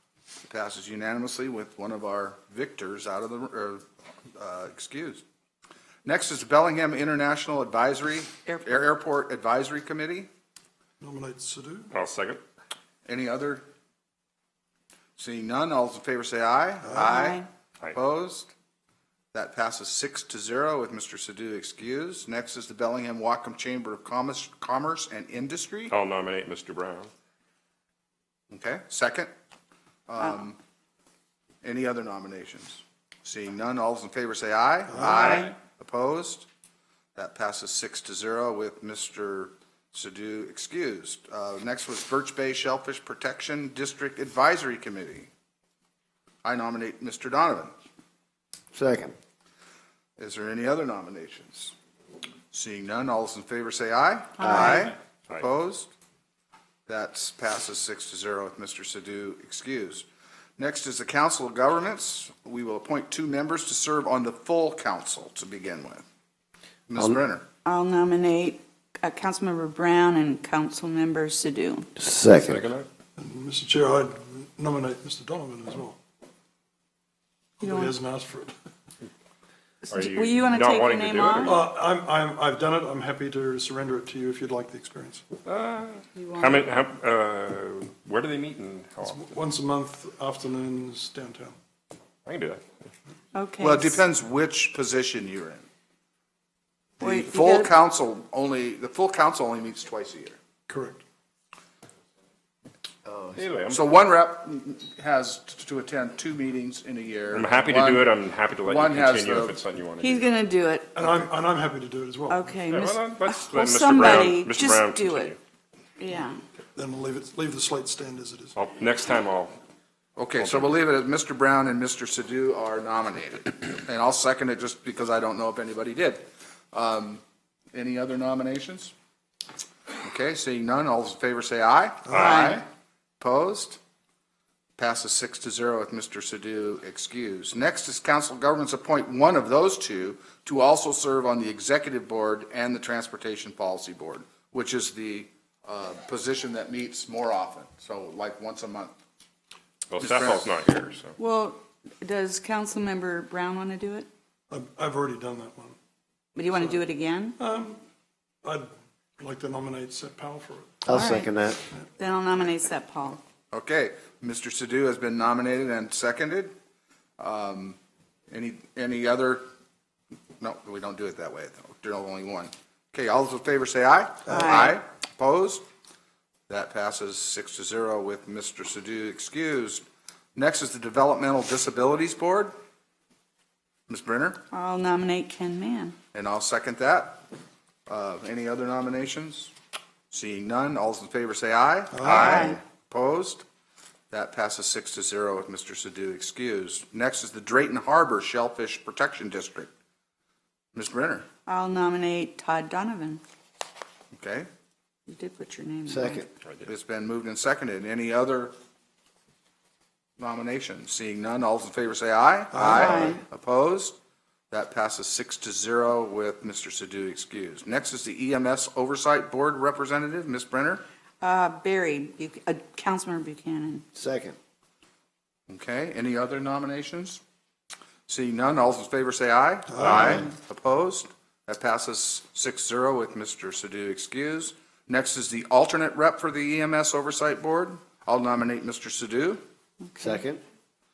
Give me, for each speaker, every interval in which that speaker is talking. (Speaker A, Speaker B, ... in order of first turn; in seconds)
Speaker A: 0.5-3.8, 4.3-5.2, 6.0-10.3, 13.1-13.7, 15.2-18.5, 19.3-25.9, 28.5-29.3, 30.1-30.6, 31.6-36.5, 37.1-45.3, 46.4-47.7, 50.2-51.7, 52.5-55.9, 56.9-60.0, 60.6-66.0, 66.9-67.5, 93.6-95.7, 97.0-100.4, 103.7-109.6, 120.2-127.2, 127.7-128.9, 130.0-132.7, 133.2-133.8, 134.8-148.9, 150.0-150.5, 163.5-166.5, 167.2-167.8, 168.3-169.4, 170.4-175.6, 176.5-179.8, 180.3-182.5, 183.9-184.4, 186.1-187.2, 187.9-189.5, 190.1-193.4, 194.1-199.7, 200.8-201.3, 204.1-204.5, 206.7-208.5, 210.2-214.0, 214.5-220.8, 225.5-227.2, 228.1-239.4
Speaker B: 11.0-11.9, 16.8-17.1, 73.2-76.0, 77.6-78.5, 81.5-85.3, 89.0-91.5, 100.7-101.0, 111.0-112.5, 116.8-118.6, 154.5-155.8, 157.4-157.8, 158.4-160.8, 191.9-192.5, 229.7-230.2
Speaker C: 11.9-12.4, 25.9-27.1, 72.4-72.9, 79.9-81.7, 85.5-89.3, 92.3-92.6, 103.3-103.8, 107.3-110.3, 112.7-115.4, 118.6-119.5, 120.4-120.7, 149.9-151.2
Speaker D: 17.0-17.5, 35.1-35.5, 54.4-54.9, 67.7-71.9, 77.6-78.0, 79.9-81.6, 86.2-86.7, 93.3-94.0, 97.0-97.7, 110.0-110.9, 112.3-115.3, 116.0-116.4, 132.1-132.6, 151.2-154.1, 156.4-157.4, 160.9-161.3, 162.0-163.2, 174.3-174.8, 184.5-186.0, 192.1-192.6, 201.5-203.2, 205.1-206.2, 212.6-213.2, 221.2-223.8, 239.8-240.2
Speaker E: 48.7-49.1, 72.0-72.7, 160.8-161.6, 205.9-206.3, 223.9-224.4, 240.0-240.4